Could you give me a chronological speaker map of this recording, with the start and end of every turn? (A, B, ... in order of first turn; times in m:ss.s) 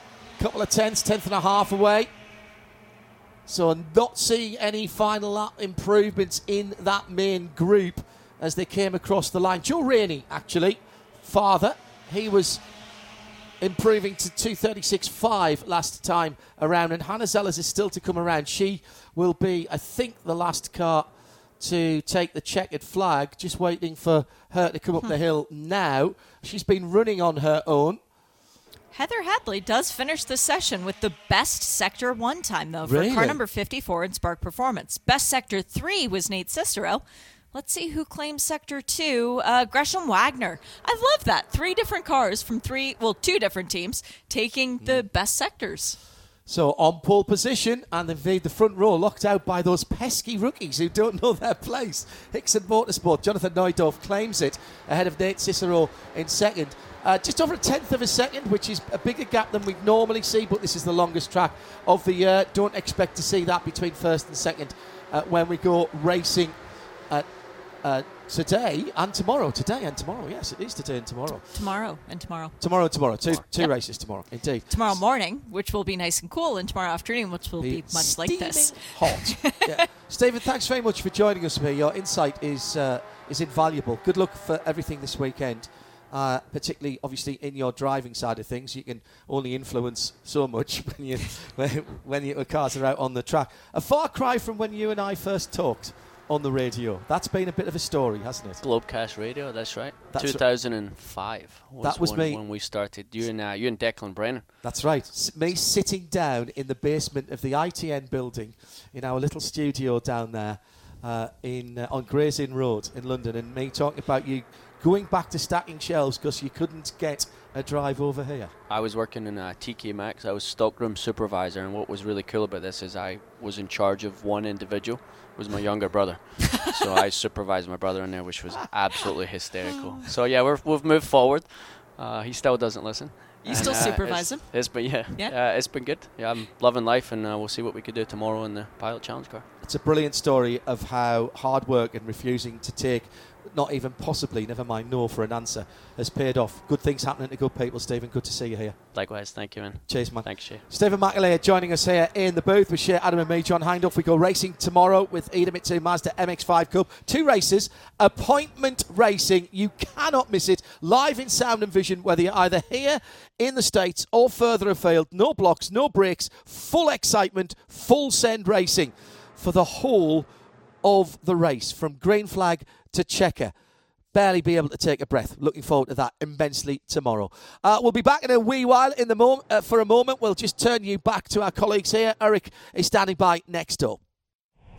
0:00.4-0:02.1 A
0:03.5-0:12.6 A
0:13.6-0:28.0 A
0:28.9-0:37.0 B
0:32.8-0:33.4 A
0:37.5-0:46.0 B
0:46.5-1:06.6 A
1:07.8-1:11.5 A
1:11.5-1:12.6 B
1:12.6-1:15.0 A
1:14.7-1:19.6 B
1:17.6-1:38.6 A
1:38.6-1:44.5 C
1:40.1-1:40.4 A
1:41.8-1:42.4 A
1:44.6-1:58.5 A
1:58.7-2:19.5 C
2:13.4-2:15.3 B
2:19.6-2:28.8 A
2:28.9-2:30.6 C
2:29.9-2:50.3 A
2:50.8-2:53.5 A
2:54.1-3:04.0 A